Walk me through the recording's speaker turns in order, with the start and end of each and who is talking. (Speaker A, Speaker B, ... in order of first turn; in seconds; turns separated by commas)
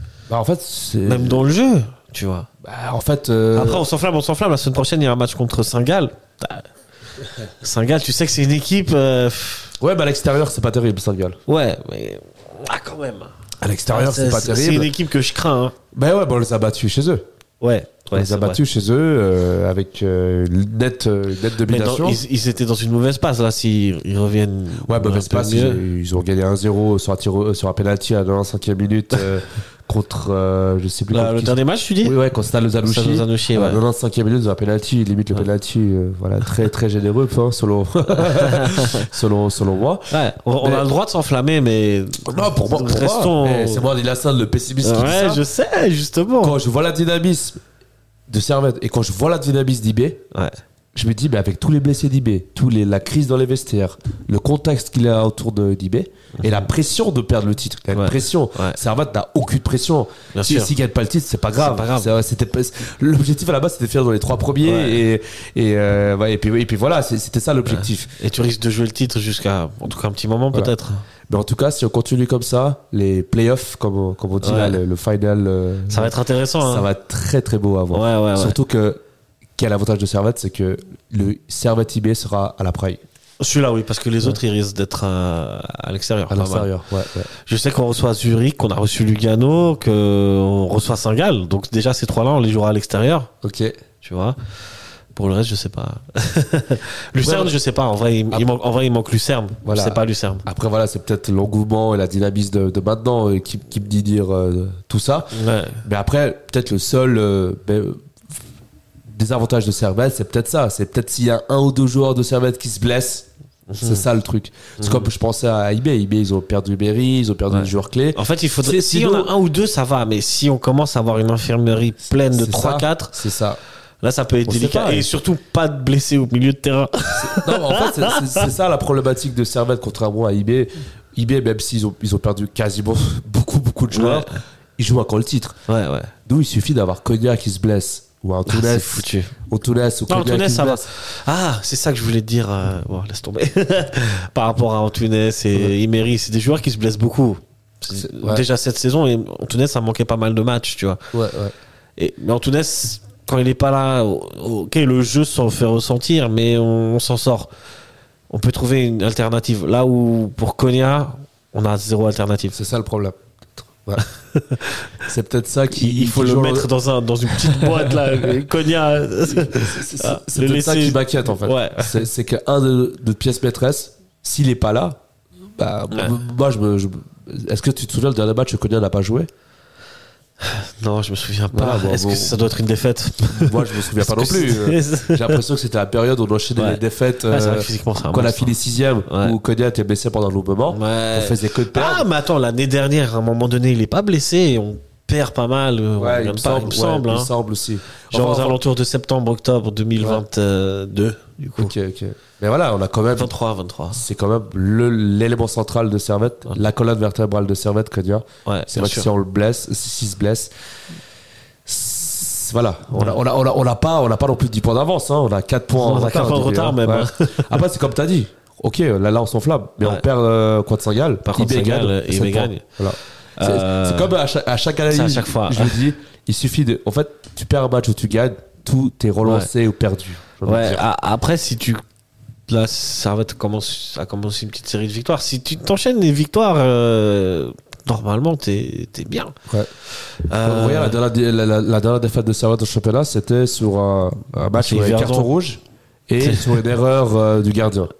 Speaker A: 0.3-1.5, Speaker B: 1.0-2.5, Speaker A: 2.6-3.9, Speaker B: 3.5-6.7, Speaker B: 7.6-9.7, Speaker A: 9.8-11.4, Speaker B: 11.5-13.3, Speaker A: 13.6-14.9, Speaker B: 13.9-15.7, Speaker A: 15.9-17.2, Speaker B: 17.6-18.6, Speaker A: 18.1-22.2, Speaker B: 21.6-25.8, Speaker A: 24.8-40.9, Speaker B: 31.1-32.1, Speaker B: 32.8-33.8, Speaker B: 38.1-39.1, Speaker B: 40.1-43.9, Speaker A: 42.3-45.4, Speaker B: 44.8-46.6, Speaker A: 46.4-47.6, Speaker A: 48.3-50.2, Speaker B: 50.3-50.6, Speaker A: 50.9-68.1, Speaker B: 57.9-58.8, Speaker B: 60.3-60.7, Speaker B: 61.6-62.1, Speaker B: 64.6-65.0, Speaker B: 67.7-71.0, Speaker A: 71.3-79.0, Speaker B: 74.4-74.8, Speaker B: 75.9-76.9, Speaker B: 77.9-78.6, Speaker A: 79.6-83.0, Speaker B: 83.4-86.7, Speaker A: 86.3-87.3, Speaker B: 87.5-93.3, Speaker A: 93.4-93.8, Speaker B: 94.0-94.3, Speaker B: 95.1-100.4, Speaker A: 97.2-97.5, Speaker A: 99.6-108.0, Speaker B: 105.3-105.8, Speaker A: 109.1-113.3, Speaker B: 113.7-114.0, Speaker A: 113.8-119.3, Speaker B: 114.8-115.1, Speaker B: 117.5-123.1, Speaker A: 122.3-123.6, Speaker B: 124.0-128.5, Speaker A: 124.5-125.1, Speaker A: 127.1-135.6, Speaker B: 133.9-134.3, Speaker B: 135.7-136.1, Speaker A: 136.2-140.9, Speaker B: 138.5-139.3, Speaker B: 140.1-151.0, Speaker A: 147.9-148.4, Speaker A: 151.1-151.5, Speaker B: 152.0-157.5, Speaker B: 158.3-162.6, Speaker A: 162.5-164.0, Speaker B: 164.3-164.8, Speaker A: 165.1-166.7, Speaker B: 165.7-172.0, Speaker A: 167.3-168.4, Speaker A: 169.3-175.0, Speaker A: 175.6-179.3, Speaker B: 180.4-185.4, Speaker A: 181.5-182.4, Speaker A: 183.3-192.1, Speaker B: 186.6-189.4, Speaker B: 190.7-197.3, Speaker A: 196.0-198.6, Speaker B: 198.1-201.7, Speaker A: 201.6-203.3, Speaker B: 203.1-204.0, Speaker A: 203.9-210.5, Speaker B: 208.4-209.1, Speaker A: 211.7-230.8, Speaker B: 215.8-217.5, Speaker B: 221.2-222.6, Speaker B: 223.4-224.1, Speaker B: 224.9-225.8, Speaker B: 229.2-229.5, Speaker B: 230.4-231.8, Speaker B: 232.5-239.3, Speaker B: 239.9-241.0, Speaker A: 240.4-247.9, Speaker B: 244.6-245.3, Speaker B: 246.2-246.5